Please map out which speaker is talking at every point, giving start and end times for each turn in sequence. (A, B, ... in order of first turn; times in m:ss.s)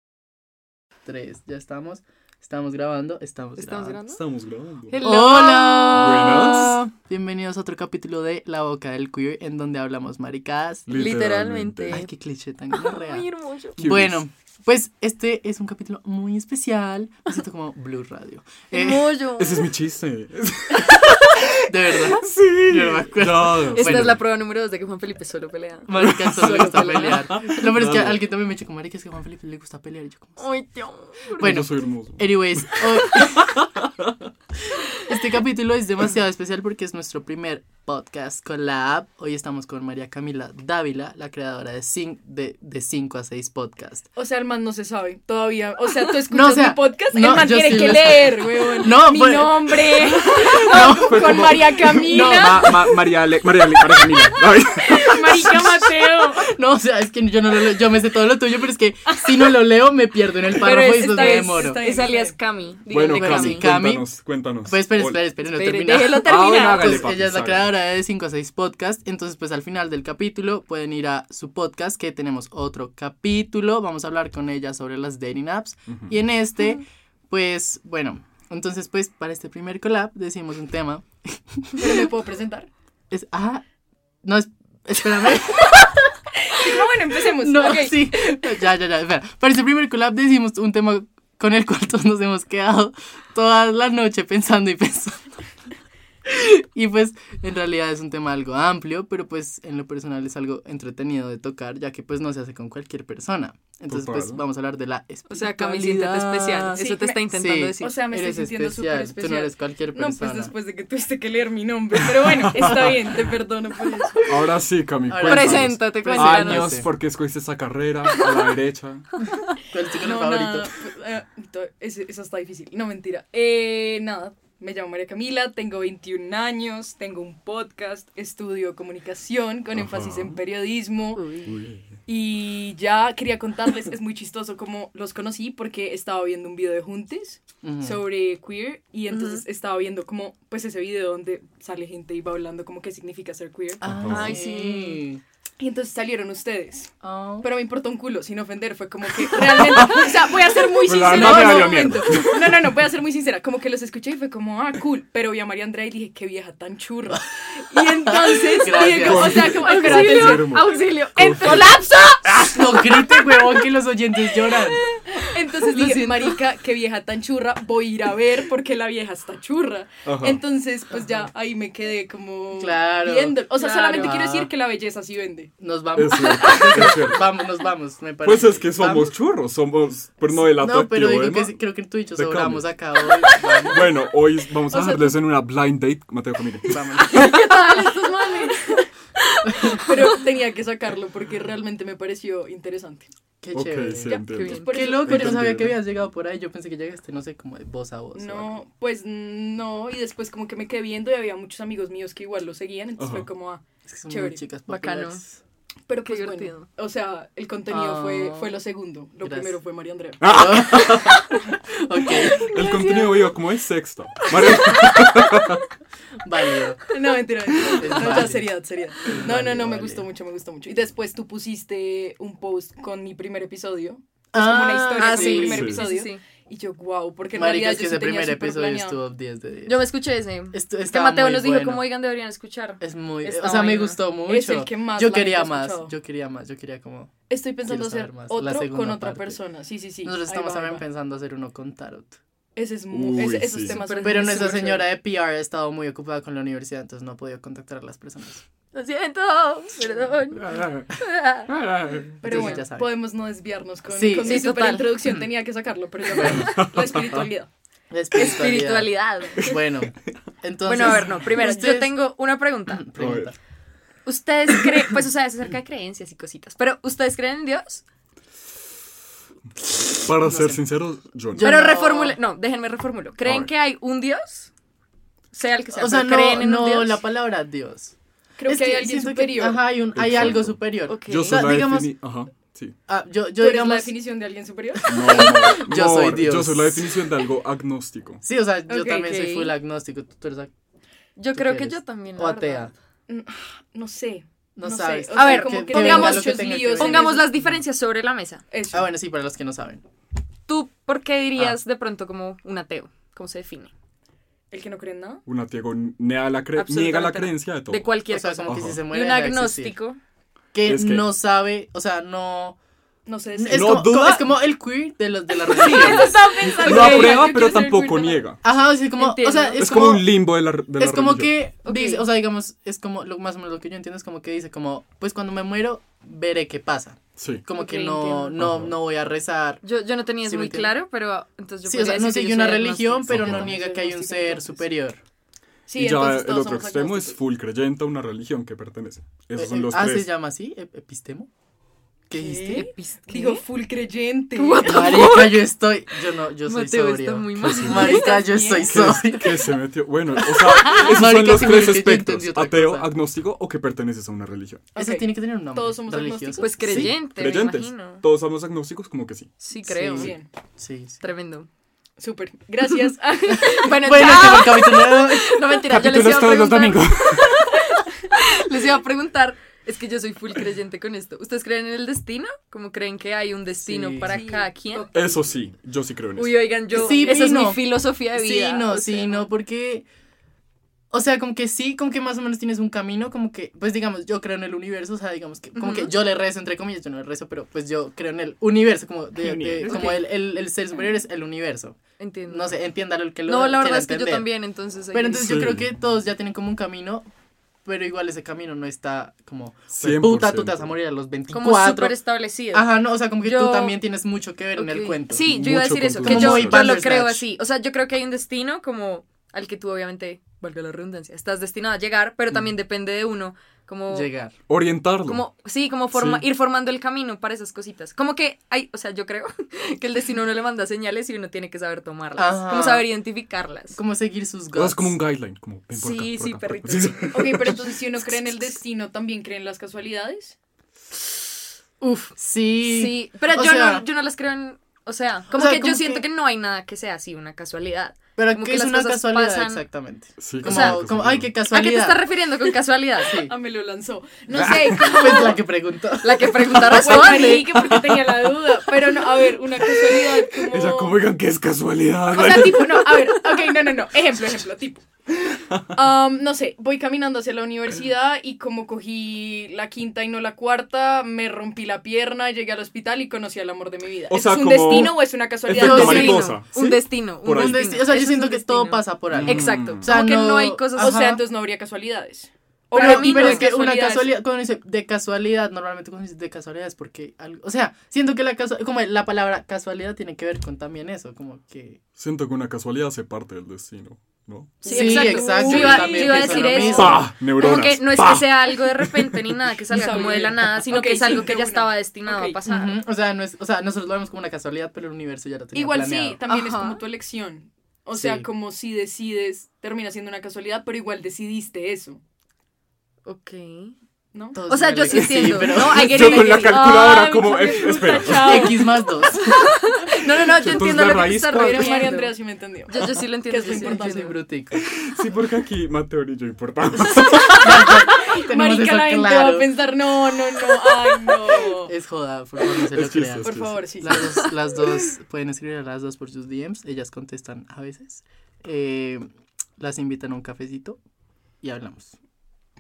0:01.1-0:04.0 A
0:03.6-0:04.2 B
0:04.1-0:05.0 C
0:04.9-0:06.7 B
0:05.0-0:10.9 A
0:05.9-0:06.8 C
0:10.9-0:12.0 C
0:10.9-0:12.1 B
0:11.9-0:13.3 A
0:12.7-0:13.8 B
0:13.8-0:14.2 C
0:13.8-0:19.2 A
0:18.7-0:19.7 B
0:19.4-0:24.2 C
0:21.7-0:24.2 A
0:23.7-0:27.5 B
0:25.9-0:30.4 A
0:26.0-0:28.2 C
0:26.4-0:27.1 D
0:30.4-0:31.5 B
0:31.4-0:33.6 A
0:31.4-0:33.9 C
0:35.1-0:44.1 A
0:44.2-0:52.9 D
0:46.3-0:51.5 A
0:50.3-0:55.7 C
0:52.0-0:52.9 A
0:54.8-0:56.5 D
0:56.4-1:01.8 A
0:59.1-0:59.5 B
1:00.5-1:03.8 B
1:00.5-1:02.4 D
1:02.9-1:05.2 C
1:03.1-1:04.1 A
1:04.6-1:22.1 A
1:05.5-1:07.1 B
1:06.2-1:07.7 C
1:15.9-1:16.2 C
1:21.8-1:22.7 D
1:23.1-1:23.6 A
1:24.2-1:26.1 A
1:26.5-1:28.4 D
1:26.6-1:35.2 A
1:36.3-1:50.5 A
1:43.9-1:44.4 C
1:45.3-1:48.0 B
1:46.8-1:54.4 D
1:52.3-1:53.2 C
1:54.3-1:59.1 C
1:55.1-1:56.9 A
1:55.2-1:56.8 B
1:59.7-2:00.7 A
2:00.0-2:11.2 D
2:09.7-2:10.4 C
2:11.2-2:11.5 B
2:11.4-2:12.0 C
2:12.1-2:23.8 D
2:17.6-2:18.0 A
2:19.1-2:19.4 B
2:23.8-2:25.2 A
2:23.8-2:24.3 C
2:24.1-2:25.0 B
2:25.6-2:40.8 D
2:27.0-2:27.5 A
2:29.3-2:32.8 C
2:31.1-2:31.5 B
2:37.7-2:39.5 A
2:38.7-2:42.6 C
2:39.2-2:43.6 B
2:41.5-2:41.9 D
2:42.4-2:44.9 A
2:44.9-2:46.0 B
2:45.1-2:55.5 D
2:45.8-2:46.2 A
2:50.0-2:50.4 C
2:52.5-2:53.4 A
2:53.5-2:54.2 B
2:54.0-2:54.5 A
2:55.6-2:59.1 A
2:56.0-2:57.3 C
2:58.2-3:01.6 C
3:00.4-3:03.9 A
3:02.2-3:02.7 C
3:03.7-3:07.1 C
3:04.7-3:05.2 D
3:06.7-3:07.2 A
3:07.0-3:10.2 B
3:07.1-3:08.9 D
3:09.5-3:09.8 A
3:09.7-3:13.1 D
3:13.4-3:18.6 A
3:13.5-3:15.8 C
3:14.1-3:15.4 D
3:14.3-3:15.0 B
3:18.1-3:24.4 D
3:23.0-3:23.3 C
3:23.9-3:25.4 A
3:24.7-3:25.2 B
3:25.9-3:30.5 D
3:26.0-3:26.7 B
3:27.7-3:28.6 A
3:29.2-3:29.5 A
3:30.2-3:31.3 C
3:30.2-3:32.5 A
3:32.2-3:33.3 D
3:32.3-3:35.6 C
3:36.2-3:36.9 A
3:36.9-3:49.0 D
3:37.7-3:38.5 A
3:39.1-3:40.0 A
3:44.3-3:45.7 A
3:44.9-3:46.2 B
3:45.4-3:45.8 C
3:47.3-3:49.8 A
3:49.7-3:54.0 B
3:50.5-3:51.9 A
3:52.8-3:57.2 A
3:54.3-3:55.9 D
3:57.3-4:00.8 D
3:57.7-3:59.4 A
4:00.0-4:02.2 A
4:02.6-4:04.9 D
4:02.9-4:03.8 C
4:03.7-4:04.7 B
4:04.0-4:08.4 A
4:08.7-4:11.5 B
4:10.4-4:10.9 C
4:11.5-4:12.5 C
4:12.2-4:17.5 D
4:12.2-4:12.9 A
4:13.9-4:14.4 A
4:14.2-4:15.0 B
4:16.2-4:17.2 A
4:16.2-4:17.3 C
4:17.9-4:22.0 A
4:18.1-4:19.4 B
4:20.7-4:22.9 B
4:22.7-4:23.4 A
4:23.0-4:23.3 C
4:24.1-4:27.8 B
4:29.9-4:31.5 C
4:30.2-4:30.6 A
4:31.3-4:32.2 A
4:31.4-4:34.5 B
4:33.2-4:33.5 C
4:35.3-4:37.0 B
4:35.8-4:37.9 A
4:38.4-4:39.7 D
4:38.5-4:41.9 A
4:39.9-4:42.8 C
4:40.9-4:41.5 B
4:42.9-4:43.9 A
4:43.4-4:45.3 D
4:44.9-4:48.2 C
4:44.9-4:46.9 A
4:48.2-4:50.5 A
4:48.7-4:49.1 D
4:48.9-4:49.5 B
4:51.2-4:52.7 B
4:51.4-4:52.7 A
4:53.1-4:57.3 D
4:54.6-4:57.1 A
4:55.1-4:58.4 B
4:58.5-4:58.9 D
4:58.7-4:59.8 A
5:00.5-5:03.7 B
5:04.5-5:05.2 D
5:05.3-5:07.9 C
5:06.6-5:10.0 B
5:08.1-5:09.8 A
5:08.5-5:08.8 C
5:10.5-5:12.6 A
5:10.6-5:11.1 C
5:13.1-5:13.8 D
5:13.4-5:16.2 A
5:13.5-5:14.4 C
5:15.4-5:18.2 D
5:15.5-5:17.7 B
5:16.4-5:18.4 C
5:18.4-5:20.1 A
5:19.0-5:19.6 B
5:19.6-5:21.3 C
5:20.8-5:29.6 A
5:21.6-5:22.1 B
5:27.2-5:27.4 C
5:27.6-5:28.4 B
5:28.4-5:28.8 C
5:29.6-5:33.4 B
5:30.2-5:30.7 A
5:31.6-5:35.0 A
5:33.1-5:33.5 C
5:33.3-5:34.6 D
5:35.7-5:37.2 D
5:35.8-5:40.1 C
5:39.4-5:41.3 A
5:42.1-5:42.7 A
5:42.2-5:45.0 D
5:42.2-5:43.4 B
5:44.4-5:45.5 B
5:44.6-5:49.4 A
5:46.4-5:48.7 B
5:47.4-5:48.0 C
5:47.7-5:48.8 D
5:48.7-5:54.7 C
5:50.2-5:52.9 A
5:54.7-5:56.5 D
5:54.8-5:57.0 A
5:56.4-5:58.0 B
5:56.6-5:59.3 C
5:59.4-6:00.1 B
5:59.7-6:01.0 A
5:59.9-6:00.3 D
6:01.0-6:01.5 B
6:02.0-6:03.4 D
6:03.0-6:14.9 B
6:03.4-6:05.6 A
6:05.7-6:07.6 C
6:13.6-6:14.2 A
6:14.1-6:15.3 D
6:14.9-6:16.6 C
6:16.2-6:19.3 B
6:16.7-6:19.9 A
6:16.8-6:17.4 D
6:20.9-6:31.8 A
6:25.6-6:25.9 B
6:29.2-6:30.0 C
6:29.6-6:30.0 B
6:32.0-6:32.6 B
6:32.3-6:34.3 A
6:33.3-6:35.5 B
6:34.9-6:37.1 A
6:35.2-6:35.7 C
6:37.6-6:42.0 A
6:39.8-6:40.7 C
6:41.3-6:43.8 B
6:42.5-6:45.3 A
6:44.6-6:54.1 B
6:45.2-6:46.7 C
6:46.0-6:47.2 A
6:53.9-6:54.4 A
6:54.5-6:55.2 C
6:55.1-7:03.8 B
6:55.9-6:56.2 C
7:02.2-7:02.9 A
7:03.7-7:05.0 A
7:04.5-7:07.8 C
7:05.8-7:07.2 B
7:07.1-7:10.4 D
7:11.8-7:19.6 B
7:12.2-7:13.9 A
7:15.3-7:16.0 A
7:18.2-7:22.1 A
7:20.2-7:21.3 C
7:20.4-7:20.8 B
7:21.5-7:23.2 B
7:23.0-7:23.3 A
7:23.1-7:25.4 D
7:24.3-7:27.2 A
7:24.4-7:24.7 C
7:26.0-7:28.0 B
7:26.5-7:31.0 D
7:26.8-7:27.3 C
7:30.5-7:33.1 C
7:32.1-7:34.8 D
7:35.7-7:46.3 D
7:44.1-7:48.0 C
7:45.6-7:46.4 A
7:45.7-7:51.0 B
7:47.2-7:51.2 A
7:49.1-7:49.9 C
7:50.8-7:54.2 D
7:52.7-7:53.5 B
7:52.7-8:01.8 A
8:02.0-8:04.6 C
8:04.6-8:07.1 A
8:04.6-8:12.8 B
8:04.6-8:07.0 D
8:06.6-8:09.3 C
8:09.7-8:12.4 D
8:12.5-8:16.2 A
8:15.5-8:22.0 D
8:16.3-8:16.8 B
8:17.9-8:18.3 A
8:23.1-8:23.7 B
8:24.1-8:24.4 D
8:24.3-8:26.4 A
8:24.5-8:26.8 B
8:25.0-8:28.6 C
8:26.4-8:29.1 D
8:28.1-8:29.4 A
8:29.1-8:32.2 B
8:30.3-8:32.0 C
8:31.4-8:34.2 D
8:32.7-8:34.2 B
8:33.4-8:34.6 A
8:34.5-8:37.5 C
8:37.4-8:39.5 A
8:37.9-8:41.7 D
8:41.5-8:49.1 A
8:42.7-8:44.0 C
8:43.2-8:44.0 D
8:49.6-8:50.8 A
8:51.4-8:51.9 A